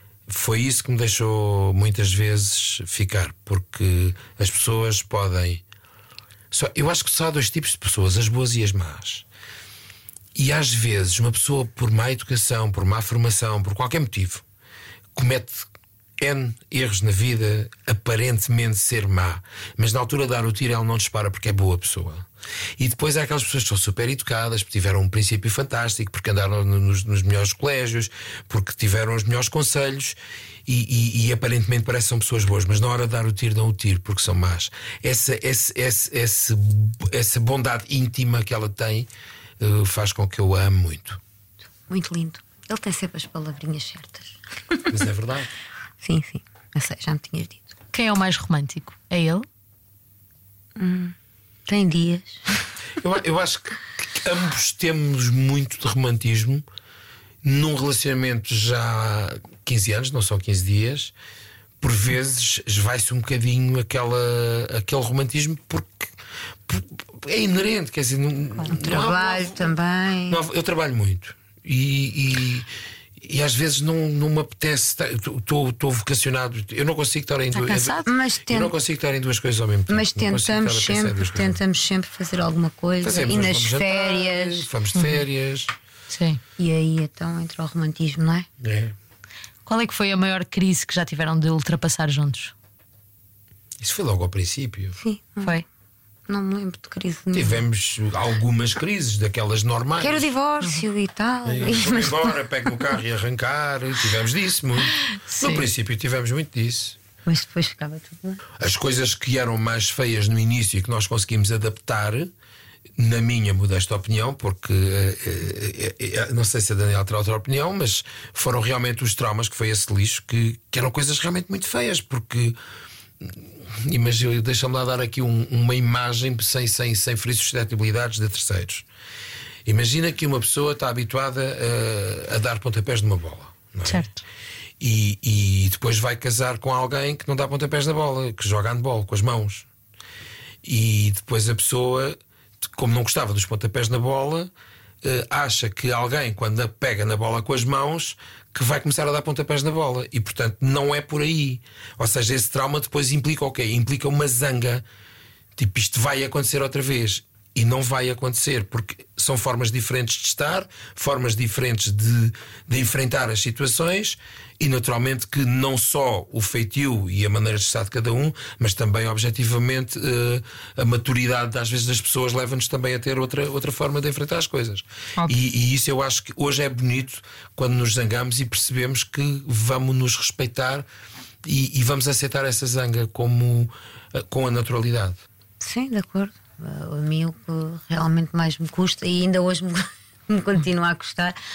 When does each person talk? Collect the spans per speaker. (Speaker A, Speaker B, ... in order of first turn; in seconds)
Speaker A: 0.3-5.6, 6.5-9.2, 10.3-14.4, 15.2-22.3, 22.8-41.2, 44.9-45.5, 53.0-56.6, 57.4-61.1, 61.8-66.1, 66.7-69.7, 70.3-72.7, 73.2-81.6, 83.0-85.7, 88.6-89.0, 93.8-95.0, 97.3-100.3, 101.5-107.0, 108.6-112.3, 113.0-122.6, 123.2-128.9, 129.7-134.1, 134.8-139.7, 140.6-144.5, 145.0-154.8, 155.6-180.9, 181.4-185.2
Speaker B: 41.9-44.9, 46.0-47.7, 50.8-51.1, 51.7-52.4, 68.7-70.4, 78.1-78.7, 79.9-84.7, 86.6-88.5, 95.0-95.5, 96.3-97.6, 100.0-102.4, 107.3-108.4, 185.6-191.4
Speaker C: 47.9-49.5, 77.5-78.1, 85.0-85.2, 86.1-86.4, 89.7-92.5, 105.3-105.6, 133.9-134.2